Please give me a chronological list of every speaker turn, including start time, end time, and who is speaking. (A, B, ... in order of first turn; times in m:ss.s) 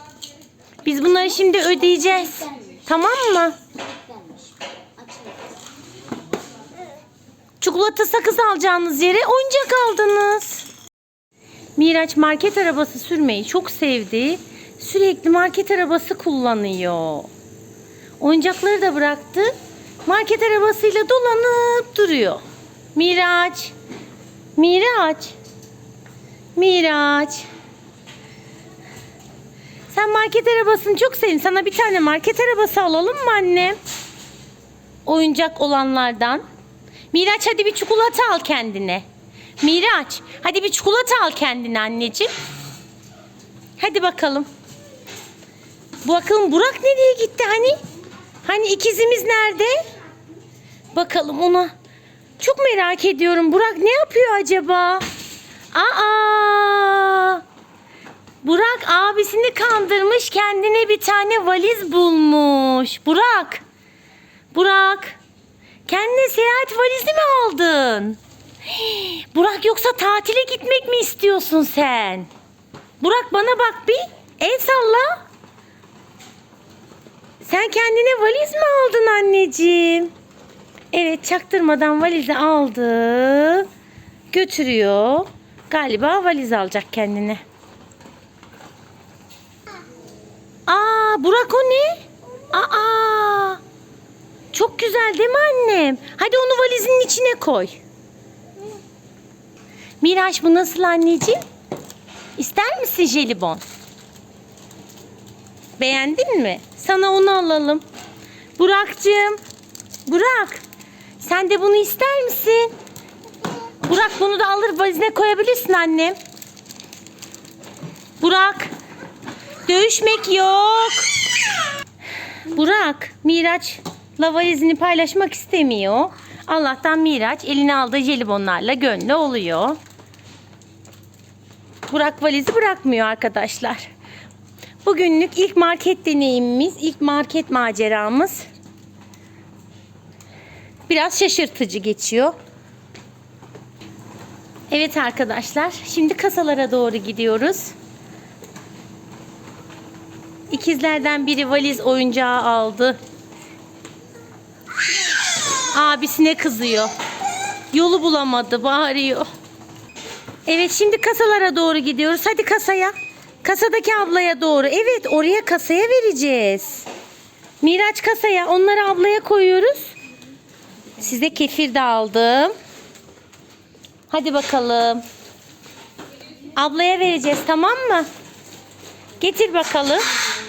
0:00.8-0:03.6 A
0:07.6-0:10.7 A
0:11.8-0:17.3 A
0:18.2-0:19.5 A
0:20.0-0:22.4 A
0:22.9-0:23.7 A
0:24.6-0:25.4 A
0:26.6-0:27.5 A
0:29.9-0:33.8 A
0:35.0-0:36.4 A
0:37.1-0:39.0 A
0:39.6-0:42.3 A
0:43.8-0:44.5 A
0:46.0-0:47.8 A
0:48.4-0:49.8 A
0:50.9-0:51.7 A
0:52.4-0:55.0 A
0:55.7-0:57.4 A
0:58.4-1:03.6 A
1:04.5-1:05.2 A
1:05.9-1:12.3 A
1:13.0-1:15.2 A
1:17.4-1:20.1 A
1:20.9-1:23.7 A
1:24.3-1:27.4 A
1:30.7-1:32.0 A
1:32.5-1:33.6 A
1:34.5-1:37.8 A
1:40.0-1:41.4 A
1:42.4-1:43.6 A
1:45.8-1:47.8 A
1:48.6-1:49.4 A
1:50.0-1:50.6 A
1:51.2-1:52.7 A
1:53.8-1:56.2 A
1:58.2-1:58.7 A
1:59.6-2:01.1 A
2:02.5-2:09.8 A
2:11.9-2:13.9 A
2:14.8-2:18.4 A
2:20.9-2:22.3 A
2:24.7-2:27.7 A
2:30.5-2:33.0 A
2:35.7-2:36.9 A
2:37.7-2:39.3 A
2:40.4-2:46.8 A
2:47.6-2:49.9 A
2:51.0-2:52.5 A
2:54.1-2:55.0 A
2:56.6-2:58.1 A
2:59.2-3:00.0 A